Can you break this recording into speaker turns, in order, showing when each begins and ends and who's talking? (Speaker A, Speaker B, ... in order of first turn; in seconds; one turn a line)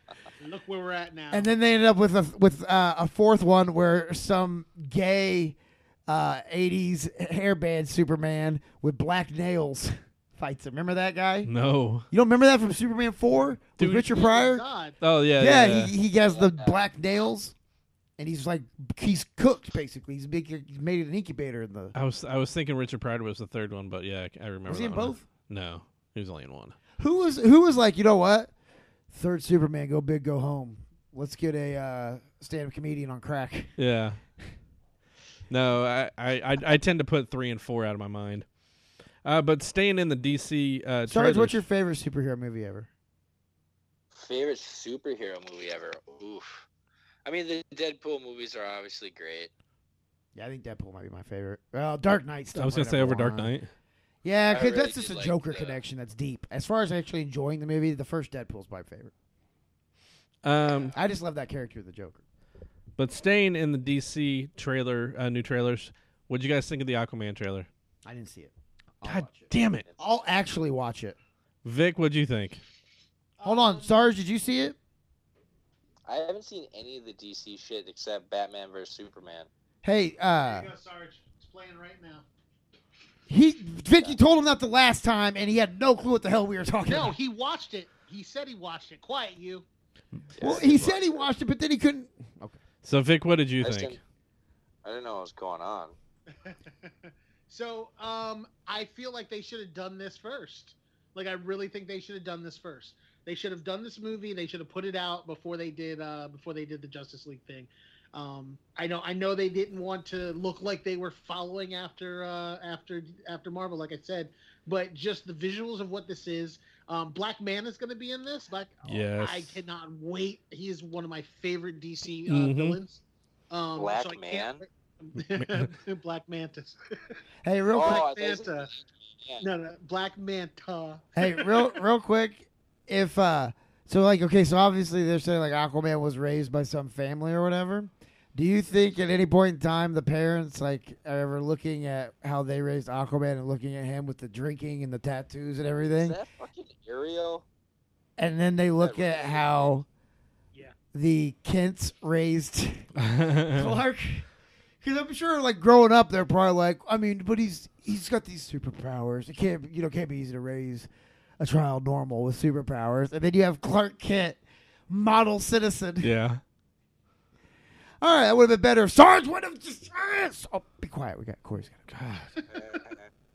Speaker A: 0.4-1.5
Speaker B: 1.3-11.5
Speaker C: 11.4-12.1
Speaker B: 12.1-14.6
Speaker C: 13.8-14.1
Speaker A: 14.1-15.0
Speaker C: 15.0-15.9
Speaker B: 15.4-17.5
Speaker D: 16.2-16.8
Speaker B: 18.2-21.9
Speaker C: 21.9-26.8
Speaker B: 24.7-25.2
Speaker B: 27.0-28.5
Speaker B: 29.1-33.7
Speaker C: 33.8-34.2
Speaker C: 35.5-38.4
Speaker C: 39.2-41.6
Speaker B: 41.1-42.9
Speaker D: 44.1-46.7
Speaker D: 47.2-49.5
Speaker B: 50.3-53.5
Speaker C: 52.5-53.7
Speaker B: 54.2-59.1
Speaker D: 54.5-55.8
Speaker C: 60.4-60.9
Speaker B: 60.9-62.2
Speaker C: 63.0-67.7
Speaker B: 68.0-71.2
Speaker C: 69.0-69.8
Speaker C: 71.6-72.6
Speaker A: 73.4-73.9
Speaker B: 73.4-74.8
Speaker D: 76.0-79.5
Speaker B: 79.8-80.7
Speaker A: 80.4-82.2
Speaker B: 83.3-87.2
Speaker A: 86.8-89.6
Speaker D: 90.3-91.2
Speaker B: 90.4-92.6
Speaker C: 92.8-94.0
Speaker D: 93.6-94.0
Speaker D: 94.8-96.0
Speaker A: 96.3-127.2
Speaker C: 118.8-119.6
Speaker C: 122.3-122.8
Speaker D: 123.8-124.6
Speaker C: 125.3-125.7
Speaker B: 127.4-128.1
Speaker D: 127.7-129.5
Speaker A: 127.8-128.7
Speaker A: 129.4-131.8
Speaker B: 131.2-146.2
Speaker D: 146.0-147.4
Speaker B: 148.2-149.8
Speaker D: 148.8-149.7
Speaker B: 150.9-152.9
Speaker C: 153.0-153.7
Speaker B: 153.5-154.2
Speaker B: 154.8-166.1
Speaker C: 166.0-166.4
Speaker B: 168.0-171.8
Speaker C: 171.9-172.3
Speaker D: 172.5-173.1